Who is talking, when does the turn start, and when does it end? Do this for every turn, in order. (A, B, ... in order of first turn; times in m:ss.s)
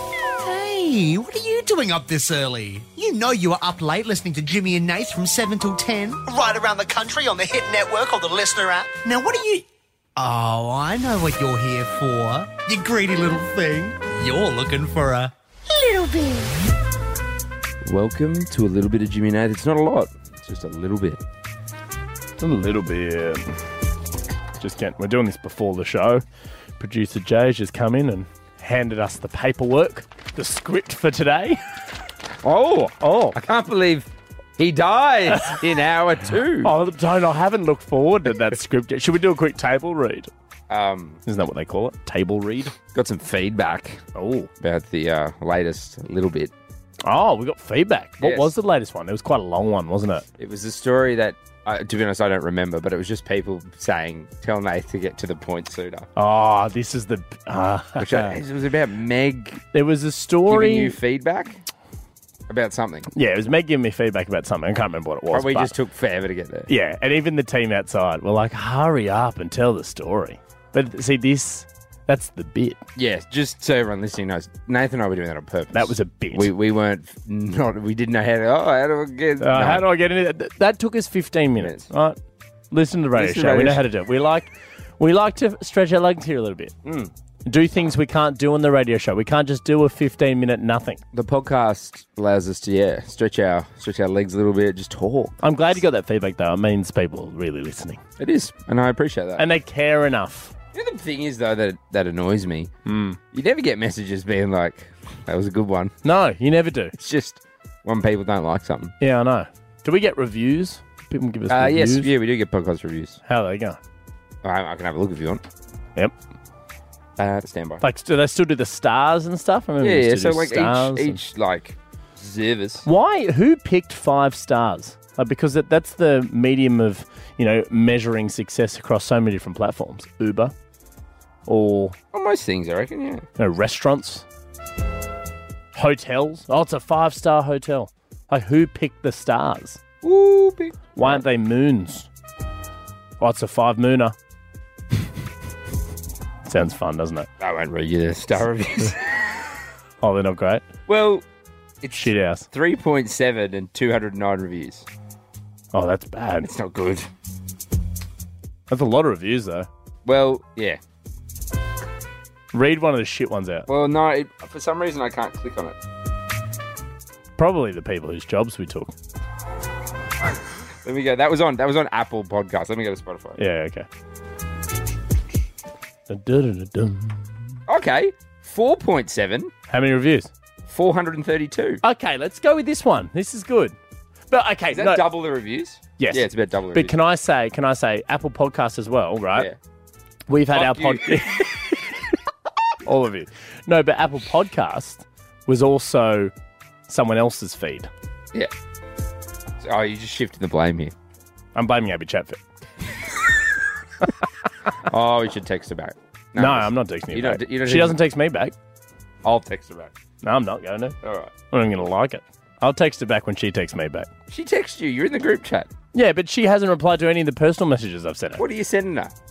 0:00.4-0:16.5 A
0:17.8-0:21.2 B
0:22.4-0:23.5 C
0:24.6-0:26.2 C
0:26.8-0:31.6 C
0:32.4-0:36.7 B
0:33.0-0:33.4 C
0:35.3-0:35.6 C
0:36.6-0:40.3 C
0:40.7-0:41.2 B
0:41.2-0:42.7 C
0:42.9-0:44.0 B
0:44.1-0:44.5 C
0:44.6-0:46.5 B
0:47.0-0:50.2 C
0:48.2-0:48.5 B
0:50.4-0:56.1 B
0:56.2-0:58.4 C
0:58.0-0:59.6 B
0:59.7-1:01.0 C
1:00.5-1:01.6 B
1:02.5-1:03.1 B
1:03.1-1:05.7 C
1:05.3-1:06.7 B
1:06.7-1:12.8 C
1:13.0-1:19.8 B
1:15.7-1:16.5 C
1:19.4-1:22.2 C
1:21.6-1:21.9 B
1:22.7-1:26.7 C
1:23.2-1:23.8 B
1:26.8-1:27.1 B
1:27.4-1:31.0 C
1:31.1-1:35.4 B
1:35.4-1:38.0 C
1:38.2-1:39.4 B
1:39.4-1:40.5 C
1:40.7-1:42.7 B
1:42.8-1:43.2 C
1:43.3-1:45.9 B
1:46.0-1:46.9 C
1:47.0-1:48.9 B
1:49.0-1:52.1 C
1:51.5-1:53.2 B
1:53.2-1:53.8 C
1:54.4-1:55.4 B
1:57.2-1:57.8 B
1:57.8-2:01.2 C
1:59.8-2:02.8 B
2:02.8-2:10.5 C
2:11.4-2:12.0 C
2:12.1-2:13.2 B
2:13.4-2:14.2 C
2:15.7-2:19.8 C
2:20.0-2:21.2 B
2:20.9-2:22.1 C
2:23.2-2:24.1 C
2:26.4-2:27.3 C
2:27.4-2:29.4 B
2:30.0-2:30.6 C
2:30.9-2:31.2 B
2:31.8-2:34.8 B
2:31.9-2:32.5 C
2:35.7-2:36.5 C
2:36.4-2:37.1 B
2:38.7-2:39.7 C
2:40.0-2:40.8 B
2:42.5-2:43.7 C
2:43.7-2:45.8 B
2:47.4-2:48.9 C
2:50.8-2:53.4 B
2:53.4-2:53.9 C
2:56.1-2:57.3 C
2:57.7-2:59.5 B
2:59.7-3:00.3 C
3:00.7-3:01.8 B
3:01.8-3:03.8 C
3:04.3-3:05.1 C
3:04.7-3:06.9 B
3:06.0-3:09.5 C
3:10.3-3:11.6 C
3:10.5-3:11.5 B
3:12.8-3:16.3 C
3:16.9-3:17.9 C
3:19.6-3:20.9 B
3:21.5-3:22.4 C
3:24.9-3:28.0 B
3:26.4-3:28.5 C
3:29.2-3:29.9 B
3:30.2-3:31.0 C
3:31.0-3:31.3 B
3:31.5-3:34.1 C
3:34.3-3:35.7 B
3:35.9-3:38.4 C
3:38.4-3:39.1 B